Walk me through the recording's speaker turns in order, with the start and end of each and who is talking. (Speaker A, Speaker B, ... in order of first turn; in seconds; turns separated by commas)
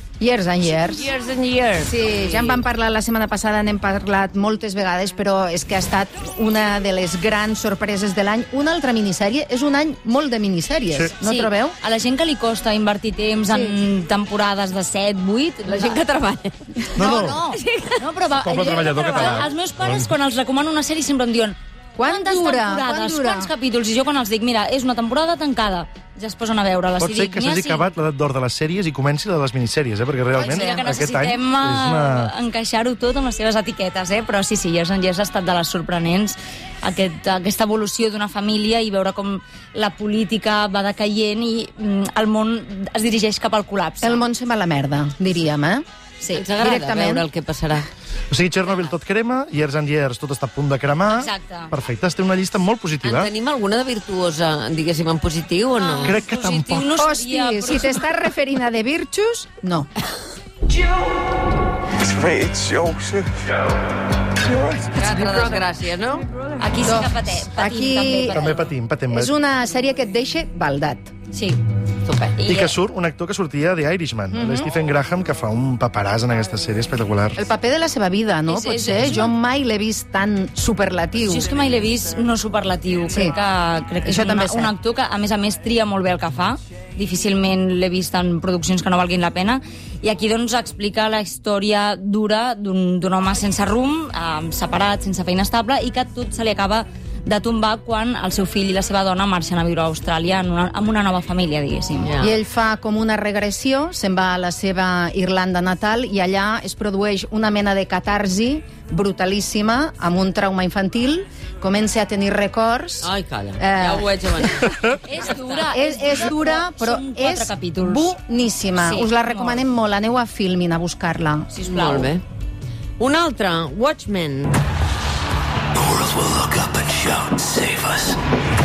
Speaker A: 0.2-1.1, Speaker B: 0.7-2.6, Speaker A: 1.8-11.7, Speaker C: 11.2-16.0, Speaker A: 13.5-13.7, Speaker B: 15.7-16.6, Speaker D: 16.9-17.5, Speaker C: 17.0-27.9, Speaker A: 17.0-17.3, Speaker D: 18.4-19.5, Speaker A: 22.0-23.5, Speaker D: 27.0-32.3, Speaker C: 30.4-44.2, Speaker A: 44.0-45.8, Speaker B: 46.3-47.9, Speaker A: 46.6-47.2, Speaker D: 48.3-53.3, Speaker C: 51.1-51.7, Speaker B: 53.0-56.2, Speaker C: 55.8-58.1, Speaker D: 56.0-56.9, Speaker A: 57.0-59.9, Speaker E: 61.9-63.5, Speaker E: 64.4-64.9, Speaker B: 65.0-66.3, Speaker C: 65.0-65.6, Speaker C: 66.6-68.7, Speaker A: 66.8-68.5, Speaker D: 68.3-69.3, Speaker A: 69.1-71.1, Speaker C: 71.3-71.6, Speaker B: 72.0-72.3, Speaker C: 72.4-72.7, Speaker D: 72.4-77.4, Speaker A: 74.3-74.7, Speaker A: 77.3-81.5, Speaker C: 78.5-79.3, Speaker C: 81.3-102.1, Speaker A: 84.0-84.7, Speaker B: 102.0-102.4, Speaker A: 102.2-114.7, Speaker B: 113.0-115.7, Speaker C: 115.0-118.1, Speaker A: 115.7-121.5, Speaker C: 118.8-119.6, Speaker C: 121.5-122.1, Speaker B: 121.7-122.2, Speaker B: 123.0-124.5, Speaker F: 125.7-128.2